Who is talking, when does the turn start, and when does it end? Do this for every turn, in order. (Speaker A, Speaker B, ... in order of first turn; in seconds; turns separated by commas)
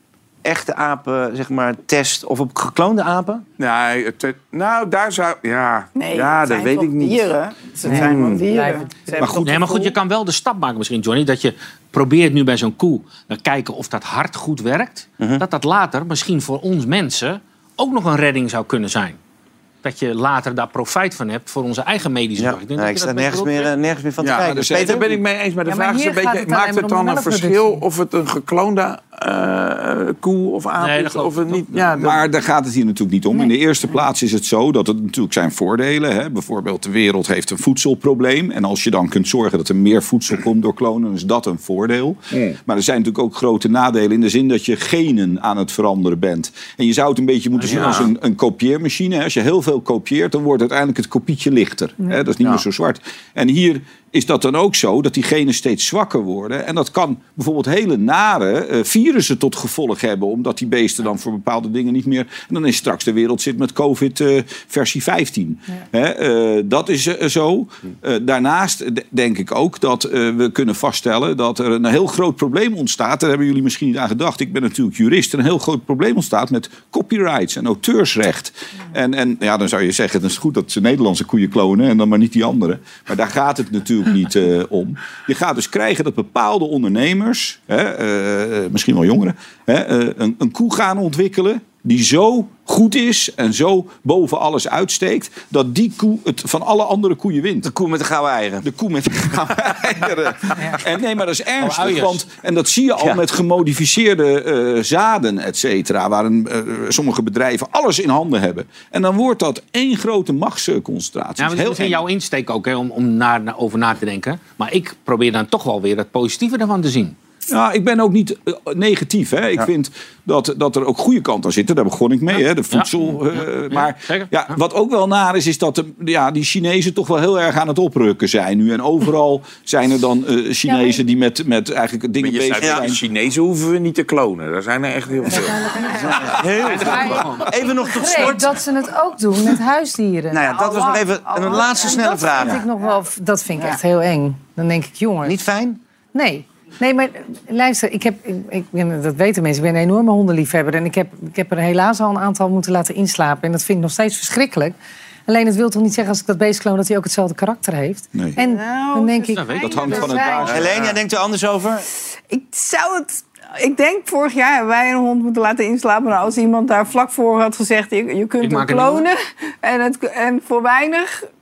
Speaker A: 0.4-3.4, Speaker B: 3.6-7.3, Speaker C: 5.9-9.9, Speaker D: 7.8-8.9, Speaker B: 7.9-8.4, Speaker E: 9.4-19.2, Speaker A: 15.2-15.4, Speaker E: 19.8-23.7, Speaker A: 22.4-25.2, Speaker B: 24.2-32.2, Speaker F: 24.4-25.0, Speaker D: 25.7-27.8, Speaker E: 30.8-31.6, Speaker F: 31.9-97.7, Speaker E: 47.6-48.0, Speaker A: 47.7-48.0, Speaker A: 97.6-98.7, Speaker F: 98.6-112.0, Speaker E: 101.6-102.2, Speaker E: 111.4-117.1, Speaker F: 117.5-133.0, Speaker E: 122.7-124.5, Speaker D: 130.7-131.0, Speaker B: 132.2-136.4, Speaker A: 132.6-132.9, Speaker D: 135.3-140.5, Speaker A: 136.0-138.6, Speaker E: 136.6-137.5, Speaker A: 140.3-142.6, Speaker C: 140.4-142.9, Speaker D: 141.5-145.4, Speaker A: 145.2-145.8, Speaker D: 146.1-154.8, Speaker D: 155.3-160.5, Speaker C: 158.3-160.5, Speaker E: 159.4-160.0, Speaker F: 159.6-160.7, Speaker B: 160.5-161.0, Speaker A: 160.5-161.8, Speaker C: 162.3-171.2, Speaker E: 168.4-169.1